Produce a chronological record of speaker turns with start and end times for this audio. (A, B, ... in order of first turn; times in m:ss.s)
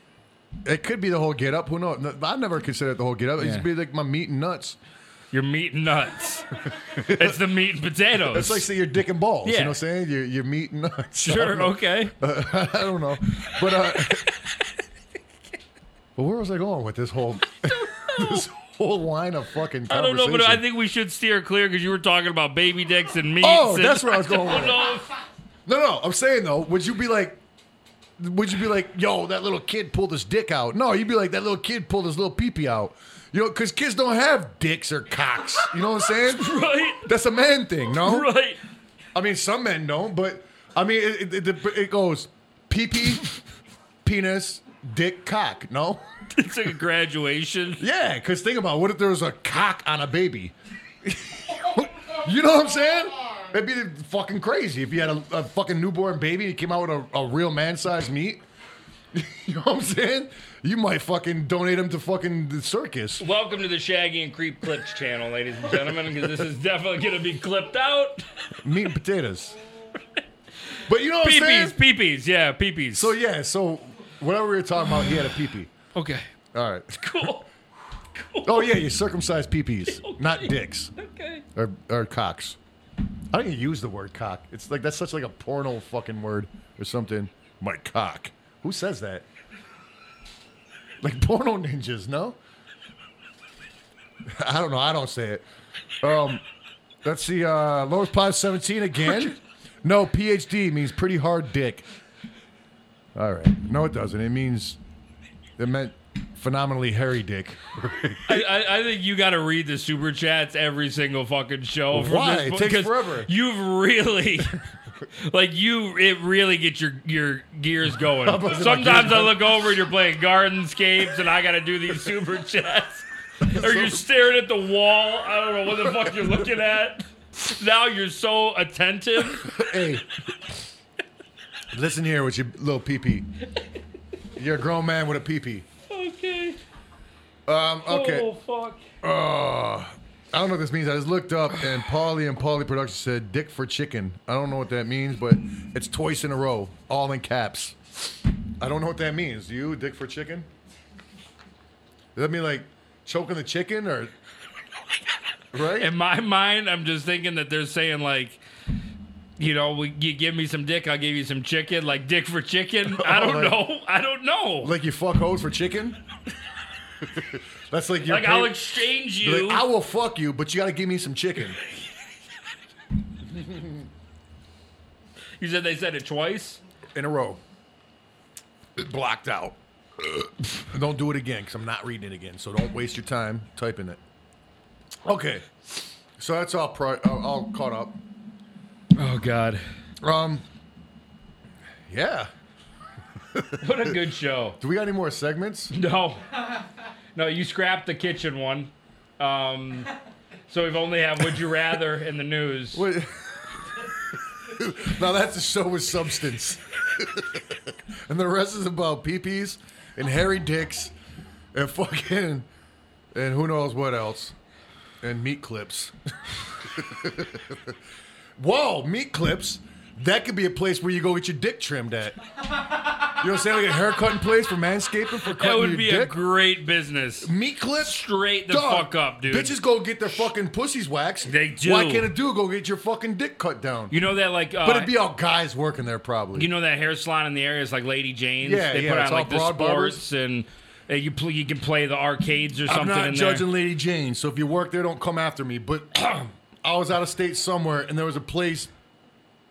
0:00.6-0:04.8 A
0:03.4-0:03.7 B
0:05.3-0:08.7 B
0:06.7-0:07.4 A
0:08.2-0:14.3 A
0:09.4-0:09.8 B
0:11.2-0:12.1 B
0:14.2-0:14.7 B
0:16.2-0:20.6 A
0:17.6-0:18.5 B
0:19.9-0:25.1 B
0:23.4-0:24.9 A
0:25.6-0:27.4 A
0:28.2-0:38.3 A
0:36.2-0:37.1 B
0:37.9-0:38.6 B
0:39.1-0:43.4 A
0:44.0-0:46.0 A
0:46.3-0:47.8 B
0:47.8-0:58.4 A
0:59.1-1:03.2 A
1:03.2-1:08.4 B
1:05.9-1:06.2 A
1:08.6-1:09.5 A
1:10.8-1:11.8 A
1:11.2-1:13.1 B
1:12.9-1:15.7 A
1:15.9-1:16.3 B
1:16.5-1:17.3 A
1:16.9-1:17.5 B
1:18.1-1:18.8 B
1:18.4-1:20.9 A
1:19.9-1:21.4 B
1:21.5-1:22.6 A
1:23.3-1:29.2 A
1:31.0-1:32.4 A
1:34.2-1:35.4 A
1:36.0-1:36.4 A
1:37.0-1:41.8 A
1:43.1-1:44.8 A
1:45.6-1:48.5 A
1:48.2-1:54.6 B
1:51.9-1:53.3 A
1:55.2-2:09.7 B
1:58.2-1:59.6 A
2:03.4-2:04.0 A
2:05.9-2:06.3 A
2:09.3-2:10.0 A
2:11.7-2:13.3 A
2:14.4-2:15.6 A
2:15.9-2:16.6 B
2:17.4-2:18.3 A
2:17.8-2:18.8 B
2:19.0-2:27.8 A
2:28.6-2:30.5 A
2:32.1-2:34.1 A
2:35.5-2:35.9 A
2:35.7-2:38.4 B
2:39.4-2:44.7 B
2:42.9-2:43.6 A
2:44.6-2:46.0 A
2:47.0-2:51.6 A
2:48.0-2:49.7 B
2:53.3-2:53.8 A
2:55.4-2:56.6 B
2:56.9-2:57.4 A
2:58.8-3:04.0 A
3:05.0-3:05.4 A
3:06.2-3:08.0 A
3:09.0-3:09.6 B
3:10.0-3:10.4 A
3:11.9-3:12.3 A
3:13.3-3:14.0 A
3:13.6-3:14.6 B
3:14.6-3:15.7 A
3:15.7-3:16.2 B
3:17.1-3:19.9 B
3:20.5-3:22.8 B
3:22.7-3:23.4 A
3:24.4-3:30.9 A
3:31.5-3:32.5 A
3:33.1-3:34.3 A
3:35.0-3:37.8 A
3:38.4-3:42.2 A
3:43.1-3:46.2 A
3:45.2-3:49.5 B
3:47.2-3:53.9 A
3:51.2-3:52.1 B
3:53.9-3:54.9 B
3:54.6-3:56.5 A
3:56.3-4:03.5 B
3:58.4-4:00.0 A
4:02.6-4:08.7 A